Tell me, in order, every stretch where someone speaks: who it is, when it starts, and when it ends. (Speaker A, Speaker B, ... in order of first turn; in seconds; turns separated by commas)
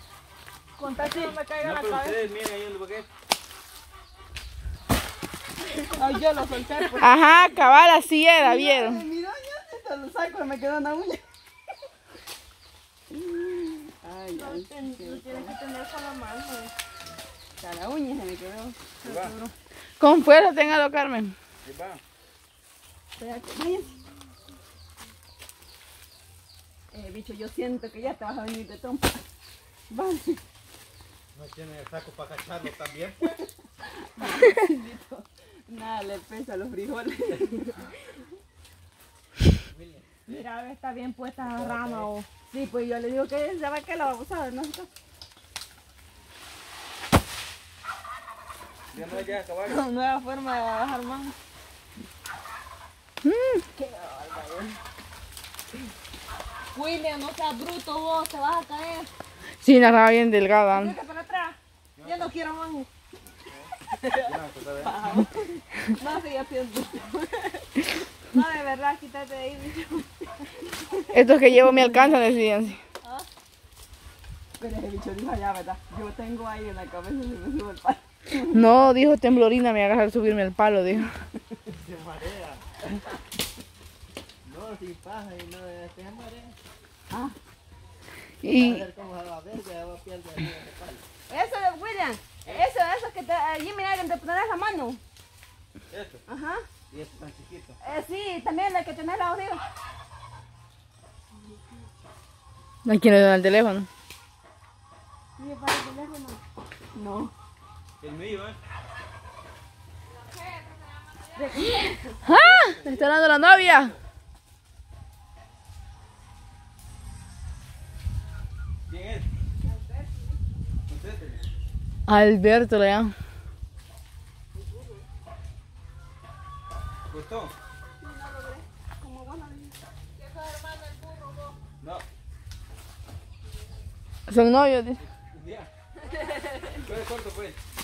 Speaker A: 0.8-2.2, Speaker B: 0.8-1.4, Speaker C: 1.6-3.1, Speaker B: 5.6-6.0, Speaker A: 6.0-7.2, Speaker D: 7.0-9.0, Speaker B: 8.3-11.2, Speaker B: 13.1-15.6, Speaker A: 14.3-16.7, Speaker B: 17.6-18.8, Speaker A: 19.0-19.5, Speaker C: 19.0-19.3, Speaker D: 20.0-21.3, Speaker C: 21.6-22.0, Speaker B: 23.2-24.0, Speaker B: 26.9-29.2, Speaker B: 29.9-30.4, Speaker C: 31.3-33.3, Speaker B: 33.8-37.9, Speaker C: 39.7-40.4, Speaker A: 40.3-42.3, Speaker C: 41.4-42.1, Speaker B: 42.5-44.9, Speaker C: 48.9-49.8, Speaker A: 49.0-51.4, Speaker D: 53.2-53.6, Speaker B: 53.7-54.8, Speaker A: 56.7-59.1, Speaker D: 59.6-60.9, Speaker A: 60.7-62.9, Speaker C: 62.0-62.4, Speaker C: 63.5-65.0, Speaker B: 64.0-67.8, Speaker A: 68.3-70.2, Speaker D: 71.1-72.8, Speaker B: 71.6-72.1, Speaker B: 74.6-78.6, Speaker D: 78.5-81.1, Speaker C: 81.7-82.6, Speaker C: 84.5-86.5, Speaker B: 87.1-87.3, Speaker D: 88.4-88.9, Speaker C: 88.7-91.0, Speaker B: 91.3-95.0, Speaker C: 95.9-96.2, Speaker B: 96.3-96.7, Speaker C: 96.9-97.8, Speaker B: 97.8-99.6, Speaker D: 102.8-103.9, Speaker B: 105.4-106.4, Speaker B: 106.9-107.3, Speaker C: 108.0-108.6, Speaker B: 111.3-112.2, Speaker D: 112.2-113.9, Speaker C: 112.2-114.0, Speaker C: 118.9-119.3, Speaker C: 120.9-121.4, Speaker D: 122.1-123.1, Speaker C: 127.1-127.5, Speaker B: 128.0-129.7, Speaker A: 130.2-131.6, Speaker C: 131.8-132.0, Speaker D: 134.3-135.0, Speaker C: 135.0-135.7, Speaker C: 136.7-137.6